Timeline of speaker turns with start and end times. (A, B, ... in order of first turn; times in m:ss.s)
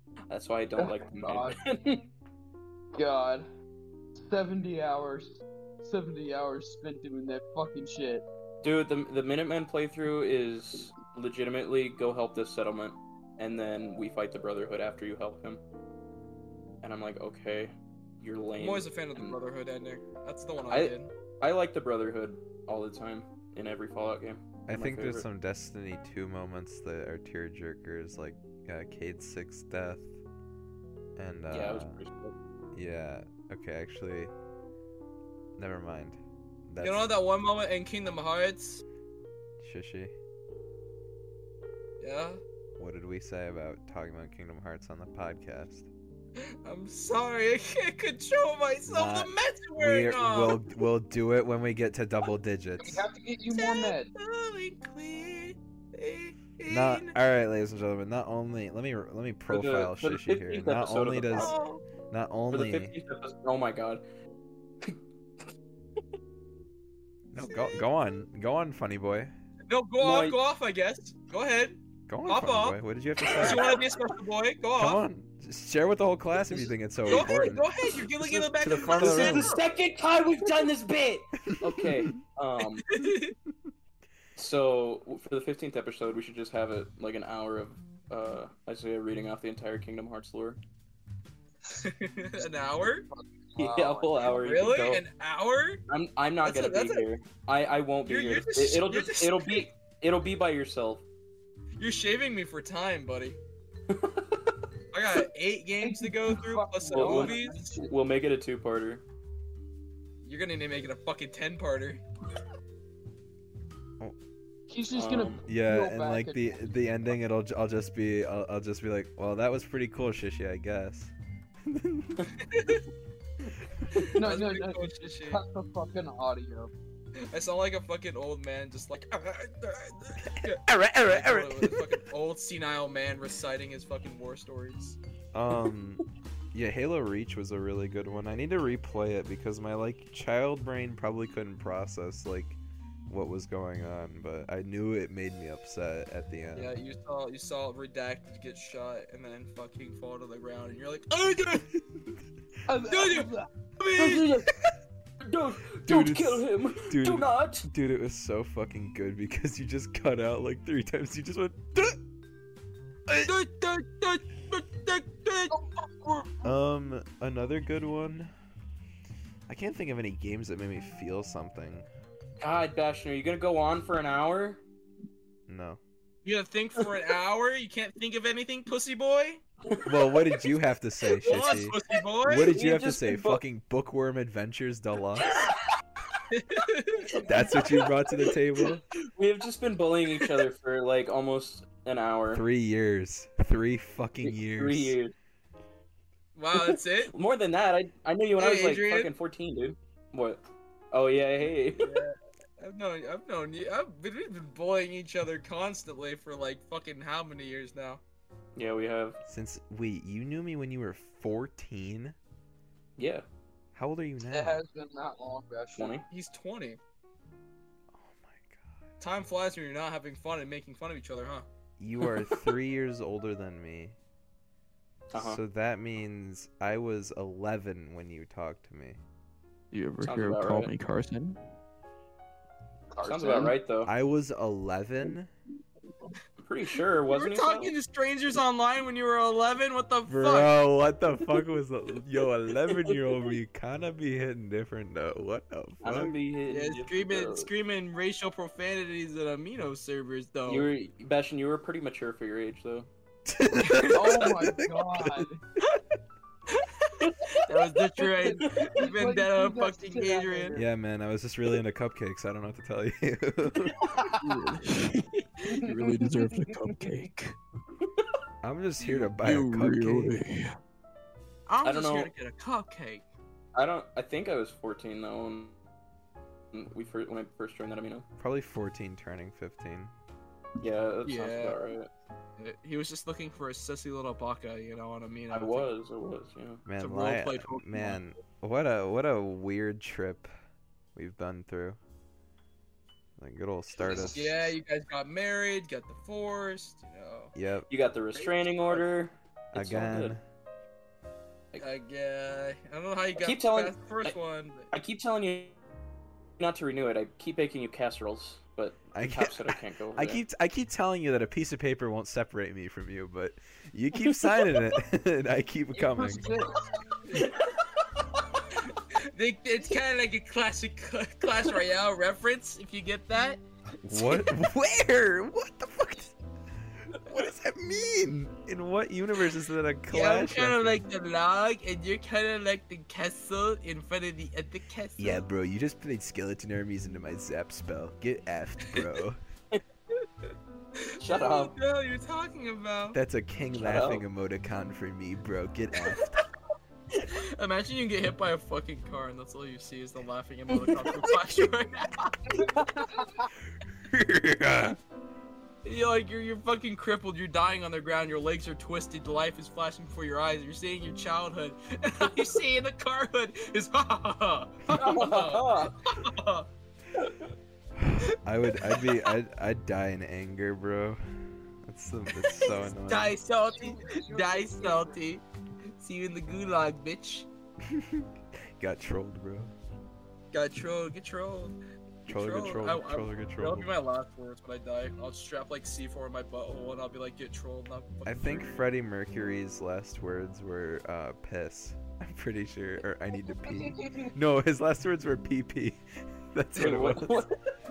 0:00.3-0:02.1 A
0:00.8-0:01.6 B
0:03.0-0:03.5 B
0:04.2-0:08.2 B
0:08.6-0:15.6 A
0:16.8-0:19.4 A
0:18.6-0:21.1 C
0:20.7-0:25.3 A
0:24.7-0:30.2 D
0:31.2-0:32.0 D
0:31.5-0:32.3 A
0:32.7-0:34.3 D
0:35.6-0:37.1 D
0:36.8-0:38.8 C
0:39.6-0:40.1 D
0:42.0-0:42.4 C
0:42.8-0:45.9 D
0:46.4-0:50.6 C
0:48.8-0:53.0 D
0:52.8-0:54.1 B
0:53.5-0:57.2 C
0:56.7-1:01.6 D
0:59.5-1:01.6 A
1:01.3-1:01.8 C
1:02.1-1:02.9 D
1:02.5-1:04.0 A
1:07.3-1:09.3 D
1:09.7-1:12.8 C
1:10.0-1:10.4 A
1:12.1-1:13.8 D
1:13.2-1:13.8 A
1:13.4-1:15.0 C
1:14.8-1:19.6 D
1:16.5-1:17.3 A
1:17.1-1:19.6 C
1:18.2-1:22.9 A
1:21.5-1:22.1 D
1:22.9-1:23.4 C
1:24.4-1:30.6 A
1:31.7-1:33.0 C
1:32.4-1:34.4 B
1:33.6-1:35.0 A
1:34.2-1:35.8 C
1:35.9-1:41.0 A
1:36.4-1:37.1 C
1:38.1-1:39.7 C
1:41.8-1:43.4 C
1:43.9-1:44.6 A
1:44.9-1:47.8 C
1:45.8-1:47.9 B
1:46.9-1:49.0 A
1:50.2-1:52.0 C
1:54.7-1:56.8 B
1:54.9-1:55.4 A
1:55.5-2:01.1 D
2:01.6-2:02.3 D
2:02.4-2:02.9 C
2:03.9-2:05.4 C
2:04.2-2:06.7 B
2:07.3-2:15.0 C
2:10.6-2:11.8 D
2:15.3-2:26.7 D
2:26.5-2:31.8 C
2:32.7-2:33.5 B
2:32.9-2:34.4 C
2:33.9-2:34.6 A
2:35.2-2:37.6 A
2:35.9-2:42.0 D
2:43.1-2:43.3 D
2:43.2-2:45.6 C
2:45.5-2:46.6 B
2:46.4-2:48.3 D
2:49.5-2:51.9 D
2:52.4-2:54.6 A
2:55.5-2:55.8 D
2:56.2-2:59.4 C
2:59.7-3:00.5 A
2:59.8-3:05.4 D
3:01.2-3:03.4 A
3:01.2-3:02.5 C
3:06.3-3:07.1 C
3:07.1-3:12.4 A
3:07.2-3:08.8 D
3:12.3-3:15.0 D
3:14.2-3:15.1 A
3:16.4-3:17.1 C
3:16.5-3:22.0 A
3:18.4-3:19.1 C
3:21.7-3:28.0 C
3:28.6-3:29.2 A
3:29.3-3:32.2 D
3:33.0-3:33.2 A
3:33.7-3:34.6 D
3:34.3-3:35.9 B
3:35.8-3:36.0 A
3:36.1-3:36.8 C
3:37.9-3:38.8 D
3:39.0-3:41.5 C
3:41.8-3:44.0 D
3:45.1-3:45.4 A
3:45.1-3:49.0 D
3:49.7-3:51.4 E
3:50.0-3:50.7 A
3:52.9-3:53.6 B
3:53.0-3:53.9 A
3:53.8-3:55.3 D
3:56.4-3:57.7 A
3:57.1-4:00.5 C
4:00.1-4:06.2 D
4:05.8-4:07.5 A
4:06.5-4:10.7 C
4:10.5-4:12.9 A
4:13.3-4:15.3 D
4:13.6-4:13.9 C
4:13.8-4:15.4 B
4:16.5-4:20.6 C
4:18.0-4:20.7 B
4:18.4-4:18.7 A
4:20.5-4:23.9 D
4:23.8-4:24.1 A
4:24.2-4:27.4 E
4:25.4-4:26.9 B
4:28.4-4:30.2 D
4:29.2-4:30.6 E
4:31.5-4:33.0 C
4:31.6-4:32.1 A
4:33.5-4:35.6 A
4:36.5-4:38.1 A
4:38.2-4:39.9 D
4:40.6-4:41.9 A
4:41.0-4:41.6 C
4:42.4-4:45.7 C
4:45.3-4:46.6 A
4:46.7-4:50.3 D
4:46.8-4:48.0 C
4:51.0-4:51.8 D
4:53.2-4:54.4 D
4:53.8-4:54.4 A
4:54.0-4:57.3 C
4:57.4-4:57.7 D
4:57.7-5:00.2 A
4:59.5-5:00.2 D
5:01.6-5:04.7 C
5:03.2-5:04.2 A
5:04.7-5:05.6 A
5:06.4-5:10.2 A
5:08.9-5:16.3 D
5:15.7-5:16.7 B
5:17.1-5:18.2 A
5:18.6-5:24.2 C
5:23.8-5:26.2 D
5:26.9-5:30.8 D
5:29.9-5:35.2 C
5:35.0-5:39.2 D
5:40.8-5:43.0 C
5:41.0-5:41.5 A
5:42.9-5:46.2 D
5:43.6-5:44.0 A
5:47.1-5:52.3 C
5:50.5-5:51.3 A
5:52.4-5:52.7 A
5:52.4-5:53.3 B
5:53.8-5:54.8 D
5:55.6-6:06.5 C
6:04.7-6:05.8 A
6:07.8-6:13.2 D
6:08.7-6:09.1 C
6:12.2-6:15.2 C
6:13.5-6:15.0 B
6:15.7-6:17.3 C
6:17.6-6:19.5 D
6:20.3-6:21.6 C
6:22.1-6:23.7 D
6:22.1-6:28.6 C
6:28.0-6:37.3 D
6:33.4-6:34.1 B
6:36.6-6:37.4 A